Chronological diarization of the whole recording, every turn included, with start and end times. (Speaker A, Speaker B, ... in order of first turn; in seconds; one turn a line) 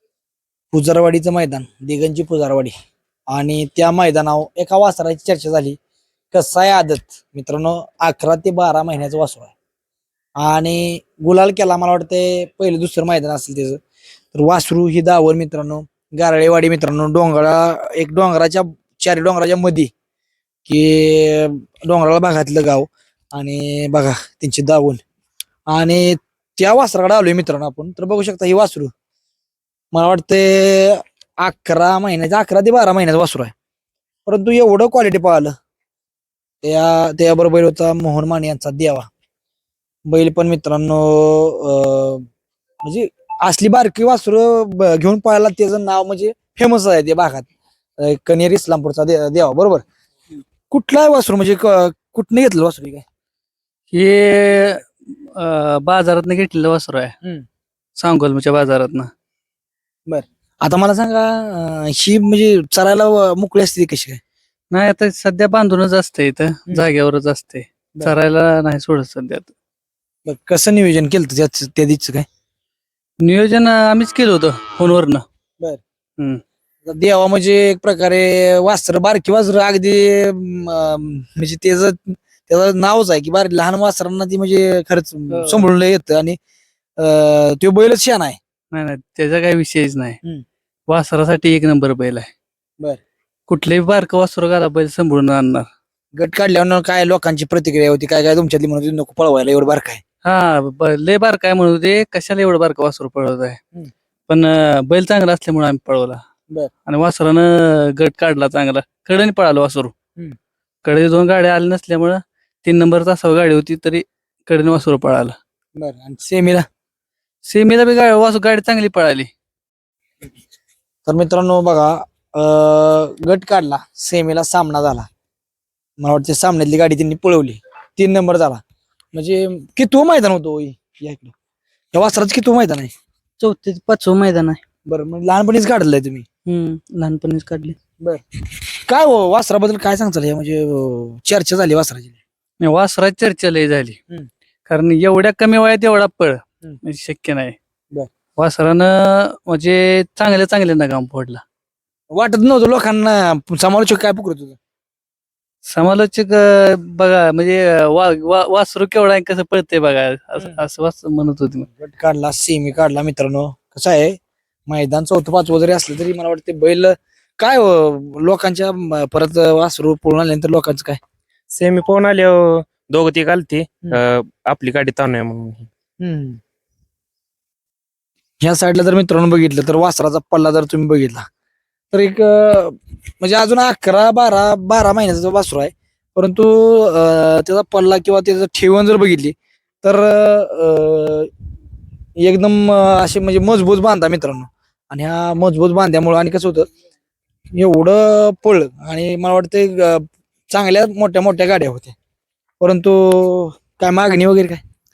Speaker A: 0.7-2.7
Speaker A: 3.3-5.8
Speaker A: 6.3-9.5
Speaker A: 10.4-13.8
Speaker A: 14.3-19.9
Speaker A: 20.6-25.0
Speaker A: 25.7-28.9
Speaker A: 29.9-33.5
Speaker A: 34.2-35.5
Speaker A: 36.6-39.1
Speaker A: 40.0-42.2
Speaker A: 42.8-49.8
Speaker A: 50.7-53.0
Speaker B: 53.9-57.1
Speaker B: 58.0-59.1
Speaker A: 60.1-64.2
Speaker B: 64.7-69.5
Speaker A: 70.2-72.2
Speaker B: 73.2-75.2
Speaker A: 76.8-86.4
Speaker B: 85.3-85.6
Speaker A: 87.0-88.4
Speaker B: 88.7-90.2
Speaker B: 90.9-92.3
Speaker B: 93.5-95.7
Speaker A: 96.1-100.0
Speaker B: 100.2-103.6
Speaker B: 104.3-106.2
Speaker B: 106.9-109.9
Speaker B: 110.8-115.3
Speaker A: 115.8-116.7
Speaker B: 117.4-119.3
Speaker A: 121.0-125.1
Speaker A: 126.0-128.6
Speaker A: 129.1-131.3
Speaker A: 131.9-132.9
Speaker C: 133.4-134.6
Speaker A: 134.8-136.2
Speaker C: 136.4-137.8
Speaker A: 138.0-142.2
Speaker B: 142.6-144.0
Speaker B: 144.7-147.6
Speaker B: 148.4-151.4
Speaker A: 152.1-154.6
Speaker B: 155.7-161.7
Speaker A: 161.8-171.0
Speaker D: 171.5-175.7
Speaker A: 176.0-176.3
Speaker A: 178.4-181.2
Speaker A: 181.9-191.3
Speaker A: 192.2-196.7
Speaker A: 197.5-201.9
Speaker A: 202.6-204.6